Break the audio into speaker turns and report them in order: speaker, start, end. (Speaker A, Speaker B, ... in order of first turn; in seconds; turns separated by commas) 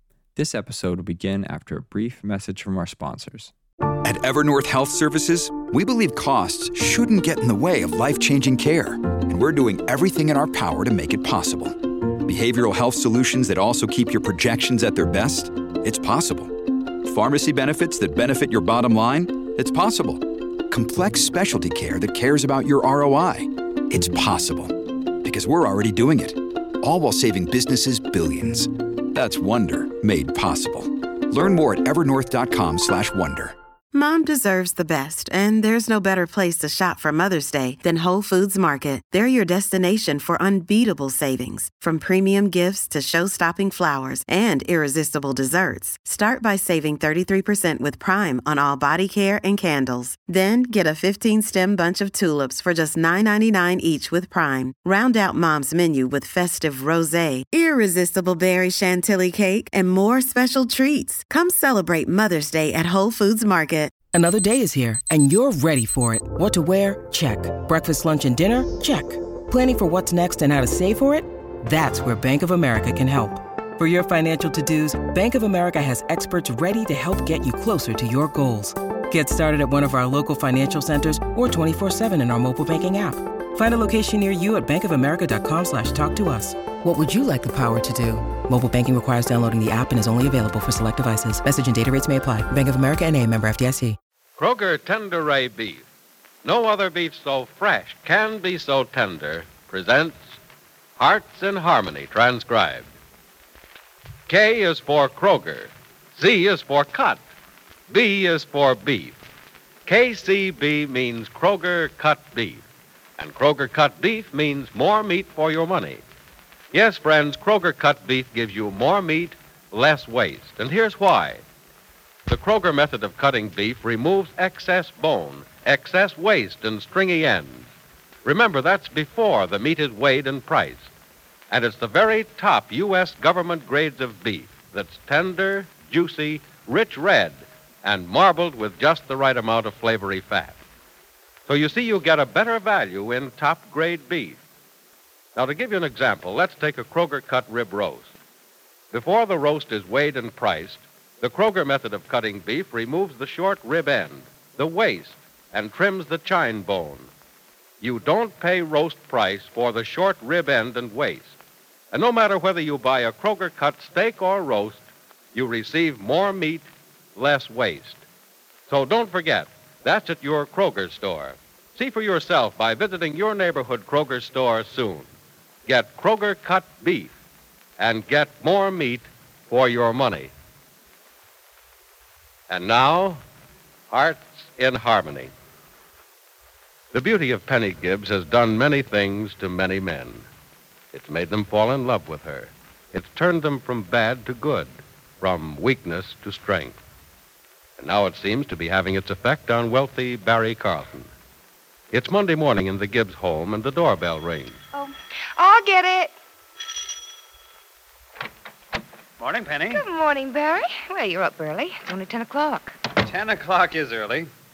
Speaker A: 0.3-3.5, Speaker B: 4.0-33.5, Speaker C: 33.9-63.9, Speaker D: 64.1-94.0, Speaker E: 94.4-95.8, Speaker E: 96.4-100.4, Speaker E: 101.0-102.9, Speaker E: 104.3-107.2, Speaker E: 107.9-109.2, Speaker E: 109.8-112.6, Speaker E: 113.2-116.0, Speaker E: 116.7-121.4, Speaker E: 122.3-127.7, Speaker E: 128.2-130.9, Speaker E: 131.5-140.6, Speaker E: 141.5-144.4, Speaker E: 145.3-148.1, Speaker E: 148.9-157.1, Speaker E: 157.8-161.3, Speaker E: 161.9-168.0, Speaker E: 168.7-175.1, Speaker E: 175.7-177.1, Speaker E: 177.8-180.3, Speaker E: 182.5-183.2, Speaker E: 183.9-185.3, Speaker E: 186.9-190.2, Speaker E: 190.9-196.8, Speaker E: 197.8-201.1, Speaker E: 201.9-204.6, Speaker F: 204.7-206.1, Speaker G: 209.2-209.8, Speaker F: 209.7-212.8, Speaker G: 213.0-214.3